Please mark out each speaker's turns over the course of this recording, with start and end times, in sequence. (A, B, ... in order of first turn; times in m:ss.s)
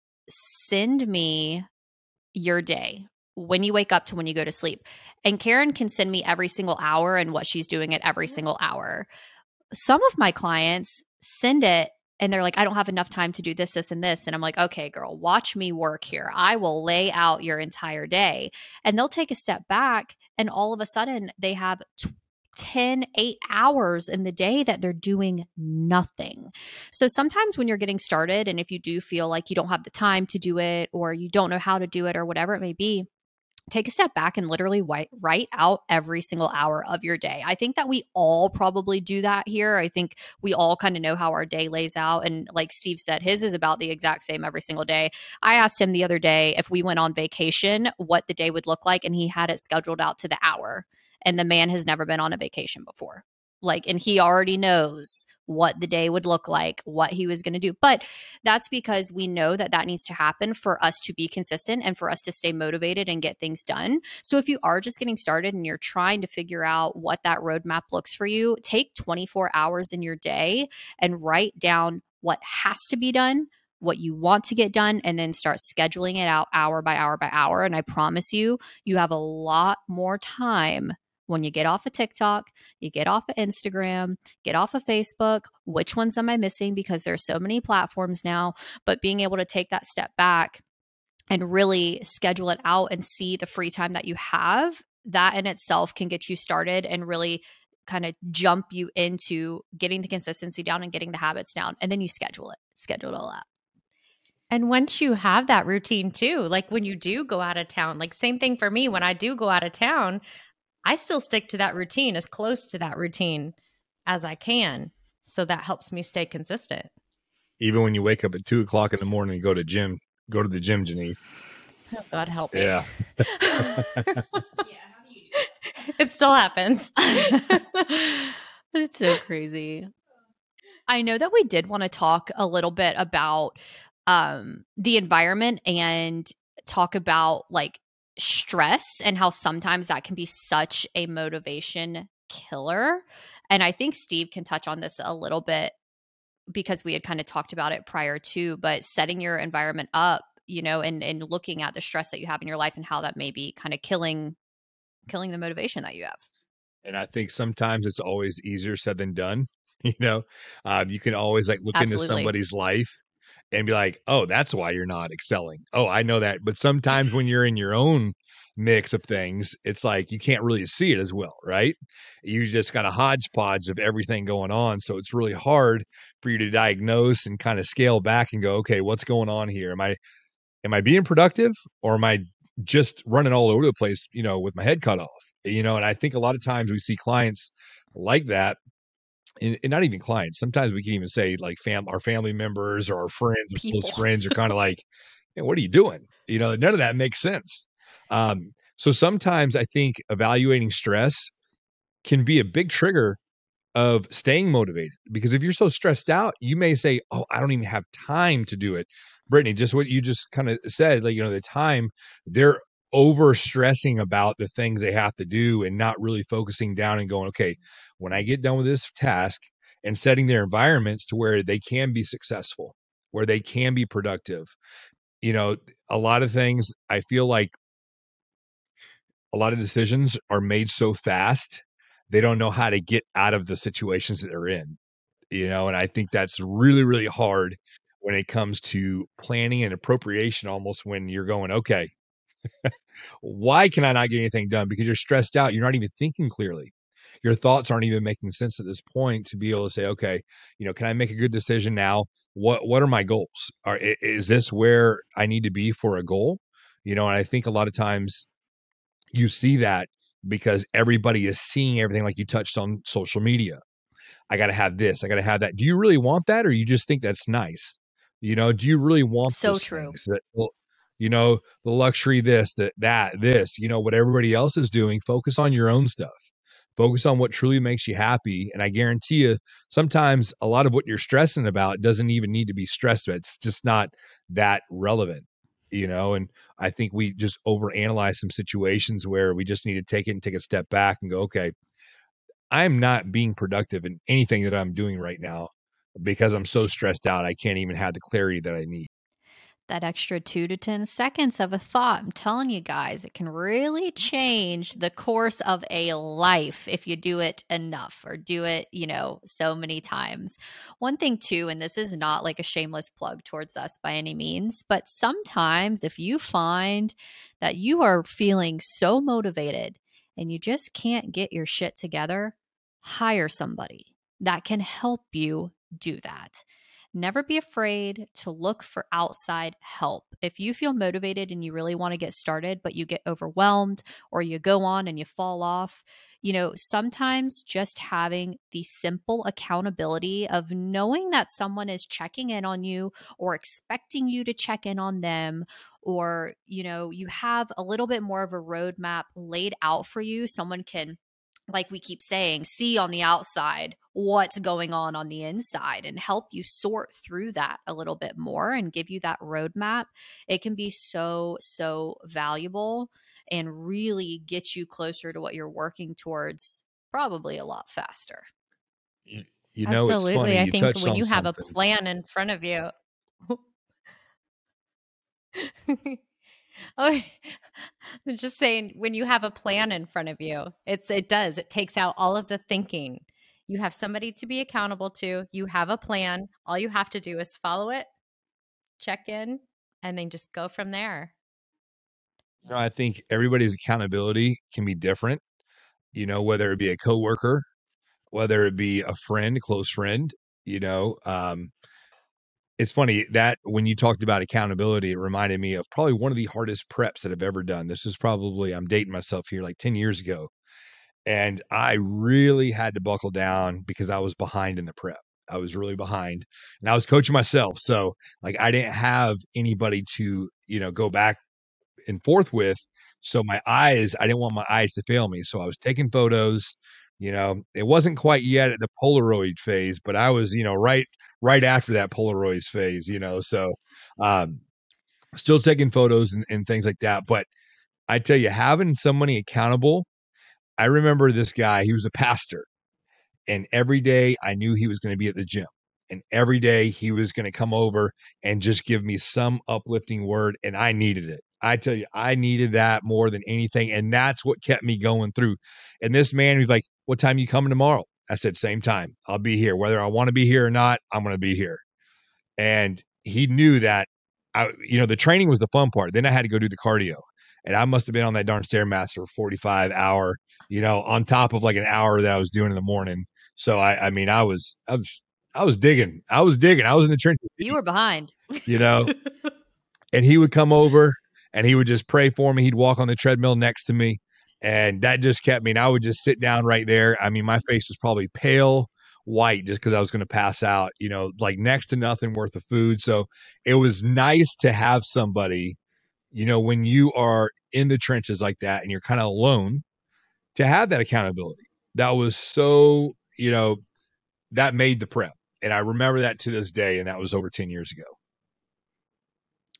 0:00.3-0:01.6 A
0:02.3-0:09.1 A
0:09.7-0:33.1 A
0:33.7-1:30.6 A
1:31.3-1:43.4 A
1:44.5-1:50.2 B
1:50.8-1:53.5 B
1:54.0-1:56.9 B
1:57.6-2:01.2 C
2:01.9-2:02.8 B
2:02.5-2:02.9 C
2:03.4-2:04.4 B
2:03.6-2:04.1 C
2:05.4-2:08.0 B
2:07.0-2:09.9 A
2:10.9-2:25.7 A
2:26.5-2:34.4 A
2:35.1-2:36.3 A
2:36.8-2:43.0 C
2:41.7-2:42.3 A
2:43.5-3:00.0 C
3:00.6-3:08.6 C
3:09.4-3:21.3 C
3:13.6-3:14.4 A
3:22.0-3:23.2 C
3:23.7-3:44.5 C
3:45.2-3:47.5 C
3:49.3-3:54.8 C
3:55.3-4:01.9 C
4:02.6-4:06.7 C
4:07.2-4:18.3 C
4:19.1-4:23.6 C
4:24.3-4:36.2 C
4:29.3-4:30.0 A
4:36.8-4:51.5 C
4:52.5-4:58.9 C
4:59.7-5:51.0 A
5:51.5-6:08.3 A
6:09.1-6:11.5 C
6:09.6-6:12.7 B
6:15.3-6:16.0 B
6:16.8-6:27.9 B
6:28.8-6:31.1 B
6:32.4-6:35.2 C
6:35.9-6:37.4 C
6:38.1-6:41.5 C
6:42.6-6:50.3 C
6:51.0-7:01.2 C
7:01.9-7:14.4 C
7:15.2-7:17.3 C
7:17.9-7:19.9 C
7:20.6-7:22.5 C
7:23.3-7:41.6 C
7:42.4-7:57.5 C
7:57.4-7:58.5 A
7:58.4-7:58.9 C
7:59.9-8:15.6 C
8:16.1-8:19.6 C
8:20.3-8:23.6 C
8:24.3-8:27.9 C